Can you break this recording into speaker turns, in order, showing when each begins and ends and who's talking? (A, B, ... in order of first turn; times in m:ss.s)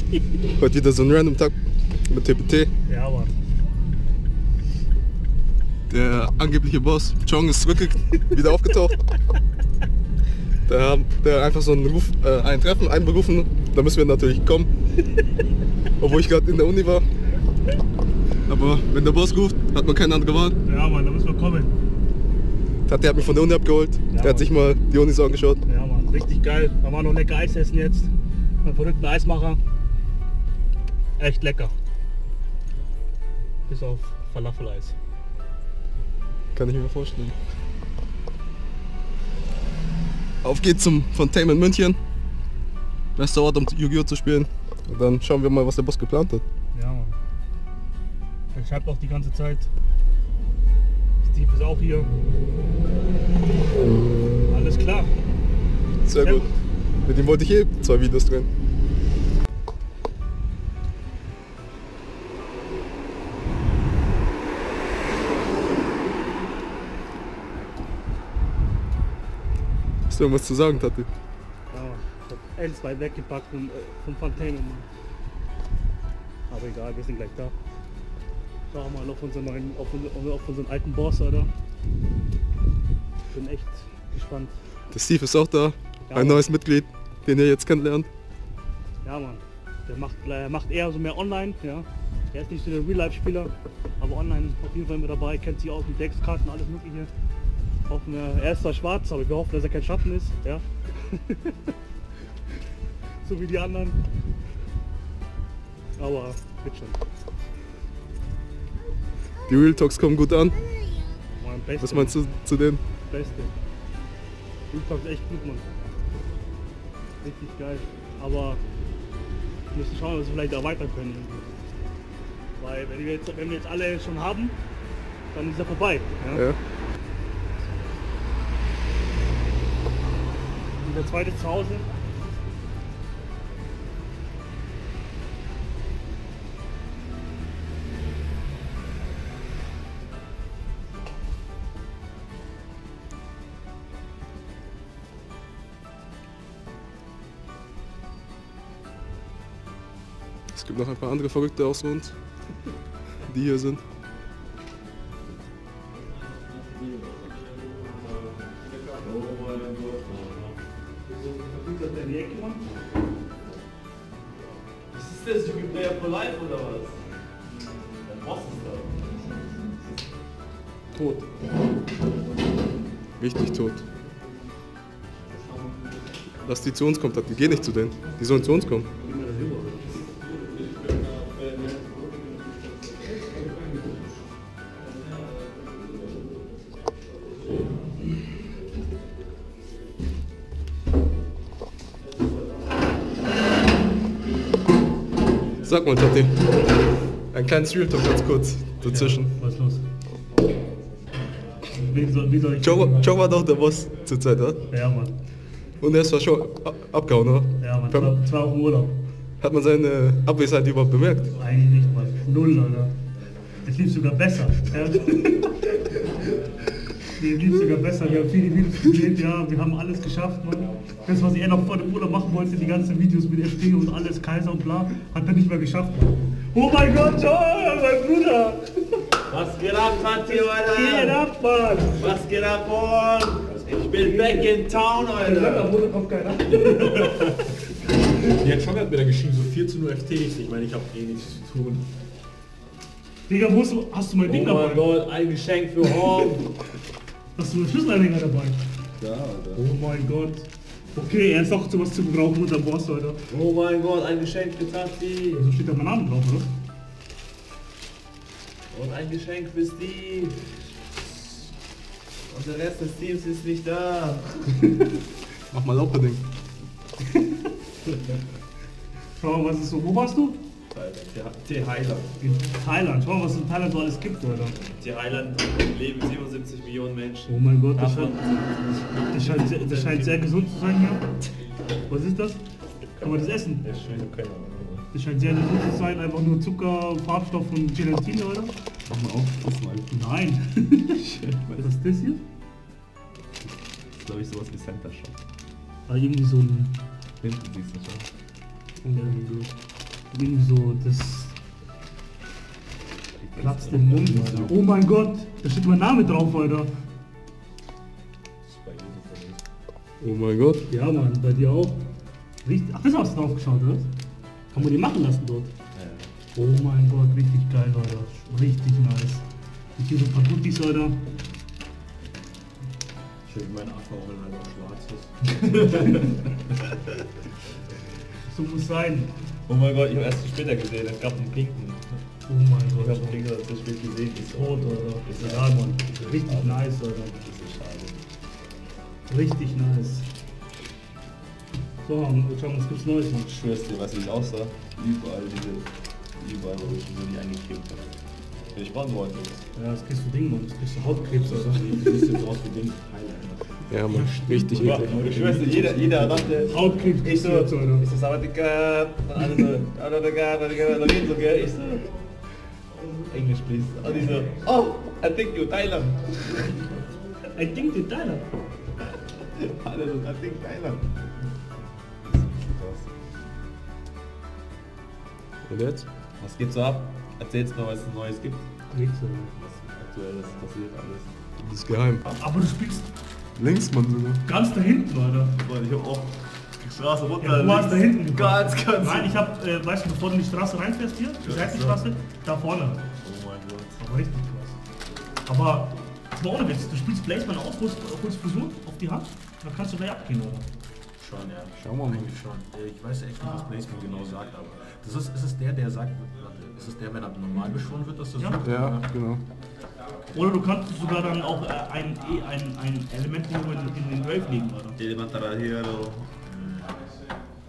0:00.5-0:01.5 A
0:02.1-0:02.7 A
0:02.8-0:03.3 B
0:05.9-0:09.0 A
0:10.6-0:14.7 A
0:16.0-0:17.0 A
0:18.5-0:20.6 A
0:20.6-0:21.7 B
0:22.8-0:25.6 A
0:24.1-0:24.5 B
0:25.6-0:28.1 B
0:28.6-0:29.6 B
0:31.2-0:31.7 B
0:33.7-0:34.9 B
0:36.5-0:37.4 A
0:40.4-0:42.0 A
0:43.2-0:46.4 A
0:46.7-0:47.2 B
0:48.5-0:49.7 B
0:51.2-0:52.1 B
0:53.8-0:54.6 A
0:54.5-0:55.1 B
0:56.0-0:56.4 A
0:56.1-0:56.5 B
0:57.0-0:58.5 A
1:10.1-1:11.1 A
1:11.7-1:14.8 B
1:16.5-1:17.5 B
1:18.7-1:21.5 B
1:23.3-1:24.5 B
1:24.9-1:28.1 A
1:26.1-1:26.5 B
1:29.0-1:37.1 B
1:37.9-1:41.7 B
1:43.2-1:44.0 B
1:46.0-1:47.0 B
1:49.5-1:50.6 A
1:51.4-1:52.2 B
1:51.8-1:52.8 A
1:53.1-1:53.5 B
1:54.7-1:55.7 B
1:57.2-1:58.6 B
1:59.7-2:01.5 B
2:02.6-2:04.6 B
2:05.3-2:06.4 B
2:06.3-2:06.6 A
2:10.8-2:11.9 B
2:30.5-2:32.1 A
2:33.2-2:33.8 A
2:36.7-2:40.6 C
2:41.1-2:42.6 B
2:44.9-2:47.2 C
2:48.0-2:49.6 C
2:50.9-2:51.2 B
2:53.2-2:53.8 A
2:56.4-2:58.9 A
2:59.0-3:00.0 B
3:15.6-3:16.6 A
3:17.3-3:19.3 A
3:18.8-3:19.8 B
3:21.7-3:23.1 B
3:22.6-3:24.6 A
3:24.7-3:25.1 B
3:25.8-3:28.2 A
3:27.6-3:29.0 B
3:29.4-3:31.3 A
3:31.4-3:32.9 B
3:33.6-3:35.8 B
3:37.2-3:49.0 B
3:49.3-3:51.2 C
3:50.3-3:52.0 B
3:51.9-3:55.7 C
3:54.0-3:54.5 B
3:55.1-3:57.5 B
3:56.5-3:57.4 C
3:58.2-4:01.9 D
4:03.3-4:04.9 B
4:04.2-4:06.6 C
4:07.4-4:08.6 B
4:09.0-4:09.6 C
4:09.5-4:13.2 B
4:13.3-4:15.5 C
4:15.3-4:16.5 B
4:18.7-4:21.4 C
4:22.3-4:24.6 C
4:25.5-4:26.2 A
4:29.2-4:30.4 B
4:30.7-4:32.1 C
4:32.2-4:34.6 B
4:34.8-4:40.2 C
4:37.3-4:38.4 B
4:39.1-4:41.0 B
4:41.9-4:42.4 B
4:43.0-4:44.9 C
4:43.0-4:43.7 B
4:44.9-4:48.5 B
4:48.8-4:50.0 C
4:49.9-4:51.0 B
4:50.9-4:51.7 C
4:51.6-4:52.2 B
4:53.4-4:55.2 C
4:55.9-4:56.7 B
4:57.2-4:58.1 C
4:58.8-4:59.4 B
5:00.1-5:01.3 B
5:03.1-5:04.5 C
5:03.4-5:06.7 B
5:03.9-5:04.5 D
5:08.4-5:09.4 D
5:10.0-5:10.6 A
5:10.7-5:11.8 B
5:12.4-5:13.9 B
5:14.5-5:15.5 B
5:15.8-5:16.1 C
5:16.3-5:19.2 B
5:19.8-5:21.0 B
5:23.2-5:25.6 D
5:25.3-5:26.2 C
5:28.2-5:29.1 B
5:29.5-5:32.0 C
5:32.3-5:33.2 B
5:32.8-5:36.6 C
5:34.3-5:37.2 B
5:37.2-5:38.0 C
5:39.1-5:40.1 B
5:41.8-5:43.2 B
5:43.1-5:47.9 C
5:48.5-5:49.4 C
5:49.5-5:52.1 B
5:51.2-5:56.6 D
5:53.7-5:54.9 A
5:54.5-6:01.9 C
5:56.5-5:57.8 B
6:03.1-6:06.6 C
6:07.3-6:08.2 B
6:08.8-6:11.2 C
6:12.0-6:12.9 C
6:15.4-6:15.8 A
6:16.2-6:18.4 C
6:18.7-6:19.3 B
6:19.3-6:21.1 C
6:21.4-6:22.0 A
6:22.1-6:22.9 B
6:23.4-6:24.2 A
6:24.2-6:25.3 B
6:25.3-6:29.2 C
6:27.2-6:32.8 B
6:31.2-6:31.8 C
6:33.0-6:33.8 C
6:33.8-6:34.6 B
6:35.2-6:40.4 B
6:41.0-6:48.9 D
6:41.6-6:42.1 A
6:48.4-6:49.2 A
6:50.1-6:54.8 B
6:54.8-6:56.1 C
6:56.2-6:56.9 D